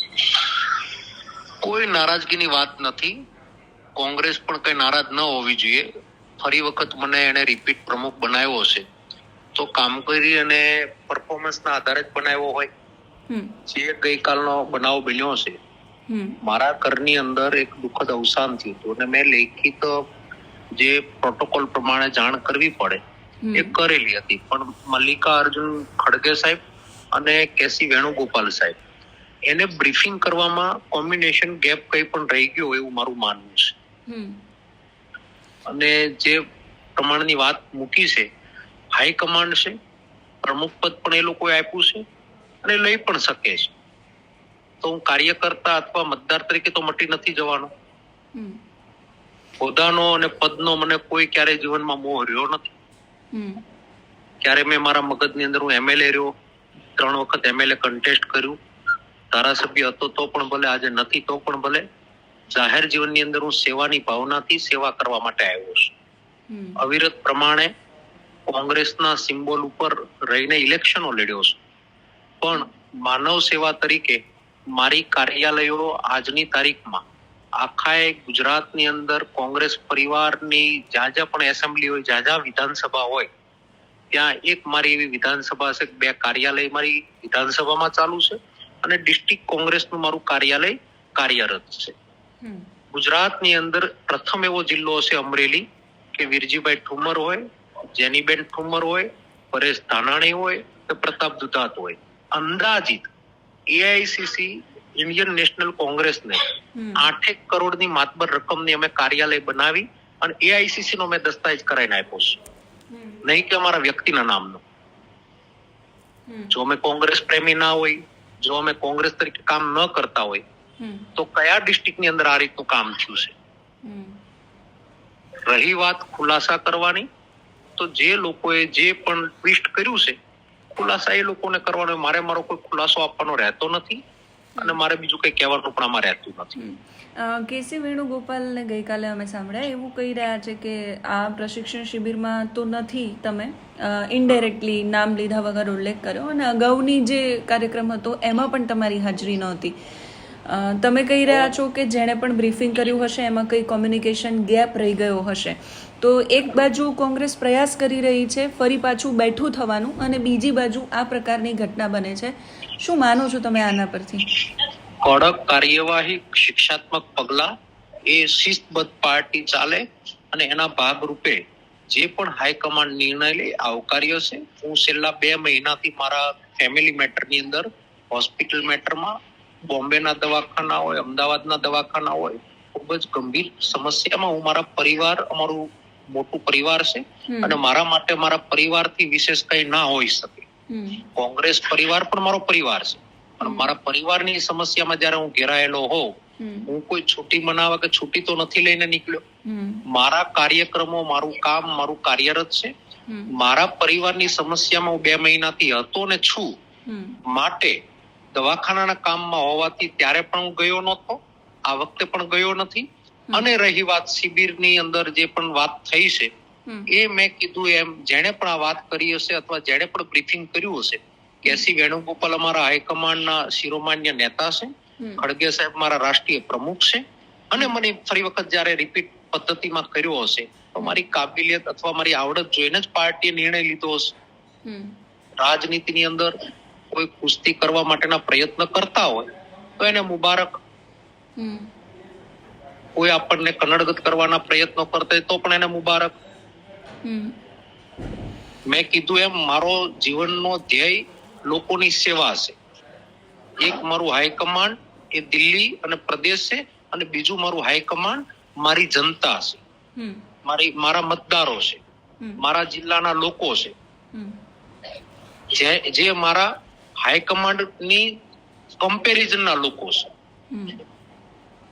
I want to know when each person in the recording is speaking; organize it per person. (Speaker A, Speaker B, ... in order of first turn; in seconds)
Speaker A: 1.6-3.1, 4.0-5.9, 6.4-8.8, 9.5-12.7, 13.7-15.6, 16.4-20.0, 20.8-23.0, 23.5-26.6, 27.1-28.8, 29.5-33.7, 35.7-36.4, 37.0-38.3, 39.0-39.8, 40.4-42.0, 42.6-43.7, 44.8-47.7, 49.6-52.6, 54.4-56.3, 57.0-58.5, 59.3-61.8, 62.5-65.9, 66.8-67.7, 68.5-71.6, 72.4-74.2, 74.7-77.0, 77.6-83.3, 84.1-91.9, 92.9-97.4, 97.9-103.1, 103.7-106.4, 107.0-112.4, 113.2-114.6, 116.5-120.4, 121.2-123.3, 125.5-127.0, 127.8-130.2, 130.7-134.0, 134.6-136.6, 165.0-167.5, 168.1-179.1, 179.7-190.4, 191.2-196.1, 196.7-199.2, 199.9-202.7, 203.3-206.5, 207.3-207.8, 208.3-216.3, 216.9-234.1, 235.4-236.3, 236.9-239.3, 239.8-240.5, 242.9-246.1, 248.7-252.6, 253.6-259.6, 260.4-261.8, 262.4-263.7, 265.5-266.5, 267.0-268.1, 268.8-270.1
Speaker B: 13.3-13.5, 16.1-16.4, 23.4-23.8, 34.1-34.4, 53.3-53.6, 66.5-66.8, 106.8-107.1, 120.8-121.1, 123.8-124.2, 136.6-149.8, 150.4-164.3, 187.3-187.6, 190.7-191.1, 193.4-193.7, 196.4-196.7, 199.4-199.8, 206.9-207.2, 234.7-234.9, 241.4-241.7, 247.0-247.3, 260.0-260.2, 270.5-270.8